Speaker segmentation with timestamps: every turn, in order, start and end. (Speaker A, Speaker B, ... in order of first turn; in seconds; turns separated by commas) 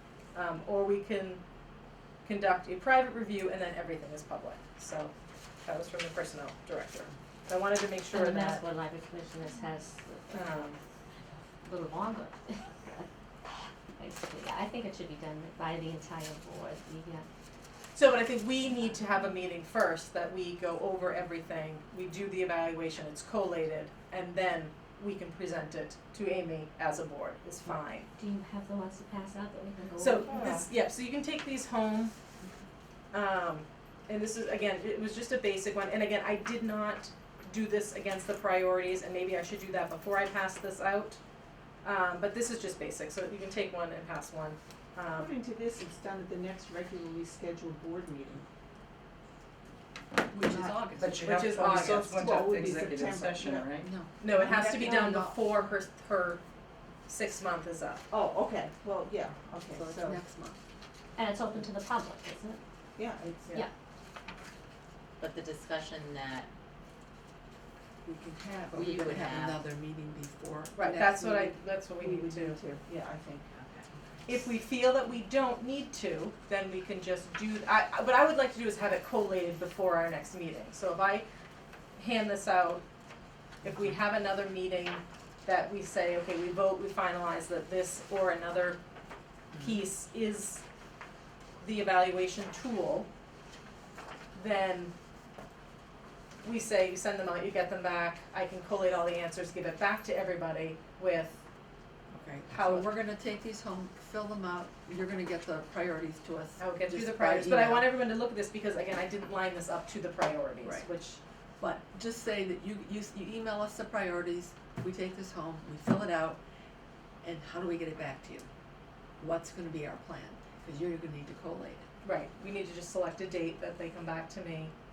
Speaker A: 0.3-1.4, Speaker A: 2.2-5.1, Speaker A: 5.6-8.6, Speaker B: 8.1-10.8, Speaker A: 10.3-10.8, Speaker B: 11.6-13.1, Speaker B: 14.0-17.2, Speaker A: 17.9-28.1, Speaker B: 28.1-30.5, Speaker A: 30.0-32.1, Speaker C: 30.3-30.6, Speaker A: 33.1-41.2, Speaker A: 41.8-45.3, Speaker D: 45.1-48.4, Speaker E: 50.3-51.2, Speaker D: 50.3-50.7, Speaker C: 51.0-53.9, Speaker A: 51.2-52.2, Speaker D: 52.1-53.7, Speaker E: 53.8-55.4, Speaker A: 54.2-56.4, Speaker D: 54.3-55.1, Speaker A: 57.1-58.0, Speaker D: 58.1-60.2, Speaker E: 59.7-60.6, Speaker B: 61.2-62.6, Speaker D: 63.0-63.6, Speaker F: 65.2-66.5, Speaker E: 68.0-71.3, Speaker F: 68.7-69.6, Speaker A: 70.7-72.6, Speaker D: 71.2-73.6, Speaker F: 73.5-73.8, Speaker A: 74.2-81.3, Speaker A: 82.0-82.8, Speaker A: 83.6-88.8, Speaker A: 89.6-90.6, Speaker A: 91.6-93.1, Speaker A: 94.3-94.9, Speaker A: 96.4-101.4, Speaker E: 102.1-107.9, Speaker A: 102.5-102.9, Speaker A: 106.6-111.2, Speaker E: 111.6-116.4, Speaker E: 117.2-118.5, Speaker E: 119.2-121.8, Speaker A: 122.0-124.7